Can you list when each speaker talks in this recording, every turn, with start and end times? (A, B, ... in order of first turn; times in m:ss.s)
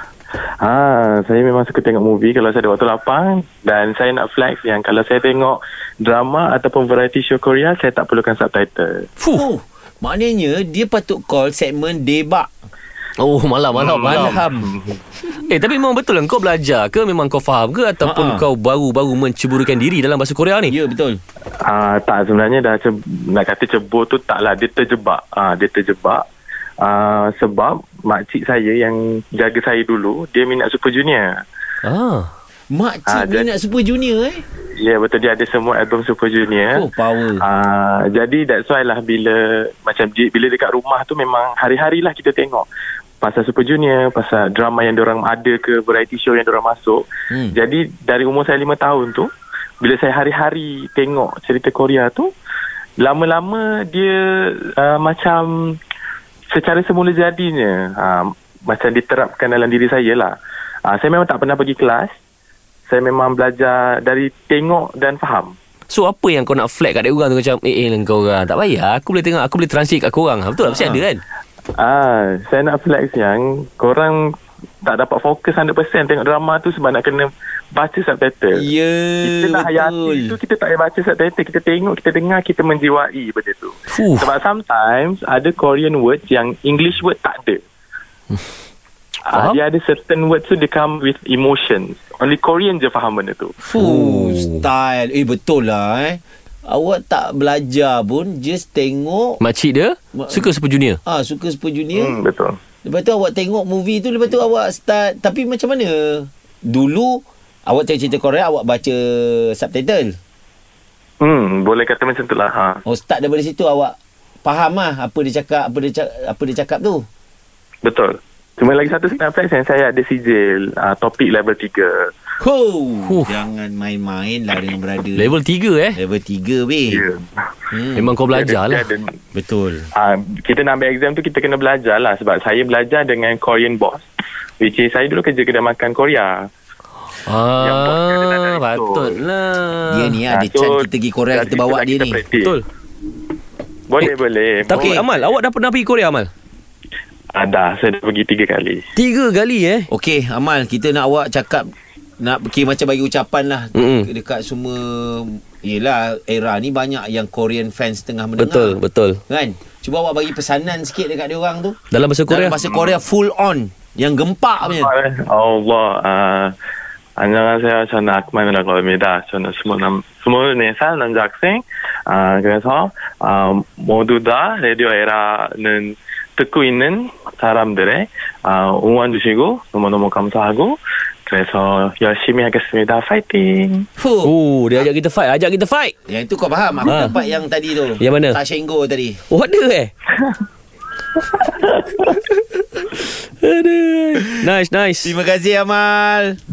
0:00.6-0:09.1 A
0:09.2-0:09.5 B
0:09.3-0:12.5 C
0:13.2-0:14.4 B
0:13.8-0:15.0 A
0:14.0-0:14.7 C
0:15.3-0:20.7 B
0:18.0-0:18.5 C
0:20.7-0:21.2 C
0:21.6-0:26.2 A
0:26.8-0:31.4 A
0:31.8-0:32.3 B
0:32.7-0:34.4 C
0:33.1-0:33.5 A
0:34.8-0:36.9 A
0:36.7-0:37.4 C
0:37.4-0:42.7 A
0:43.2-0:49.3 A
0:49.8-0:52.3 A
0:53.0-0:55.8 A
0:56.5-1:00.4 A
1:00.9-1:02.1 A
1:02.9-1:05.6 A
1:05.9-1:11.2 B
1:10.6-1:11.0 C
1:11.8-1:14.3 A
1:14.8-1:18.6 A
1:18.5-1:20.4 C
1:19.2-1:27.6 A
1:23.9-1:24.3 B
1:29.3-1:33.6 A
1:29.3-1:29.6 B
1:33.6-1:39.4 C
1:33.8-1:34.7 B
1:39.4-1:41.0 B
1:40.2-1:40.5 C
1:41.0-1:42.2 C
1:41.9-1:42.6 A
1:42.8-1:50.2 C
1:51.2-1:52.8 A
1:52.9-1:57.1 C
1:57.8-2:02.1 A
2:02.4-2:05.4 C
2:03.0-2:03.4 B
2:05.2-2:06.0 B
2:06.0-2:07.0 C
2:06.9-2:07.4 A
2:07.7-2:08.1 C
2:08.0-2:08.9 B
2:08.3-2:09.2 A
2:09.4-2:09.9 C
2:09.9-2:14.0 A
2:14.6-2:16.4 A
2:17.2-2:20.2 B
2:17.6-2:19.2 A
2:19.9-2:22.2 C
2:20.3-2:22.6 A
2:23.9-2:25.1 A
2:24.7-2:26.3 B
2:24.7-2:25.0 C
2:27.3-2:28.9 A
2:29.0-2:29.9 B
2:29.9-2:41.8 C
2:33.8-2:34.1 B
2:38.4-2:39.2 B
2:41.9-2:42.6 B
2:42.3-2:44.9 C
2:42.6-2:43.0 A
2:44.6-2:46.5 A
2:47.2-3:03.9 A
3:04.0-3:04.3 C
3:04.2-3:05.9 B
3:06.1-3:09.2 C
3:06.8-3:07.2 B
3:08.0-3:08.4 B
3:09.3-3:09.9 B
3:12.1-3:15.2 B
3:15.0-3:16.4 C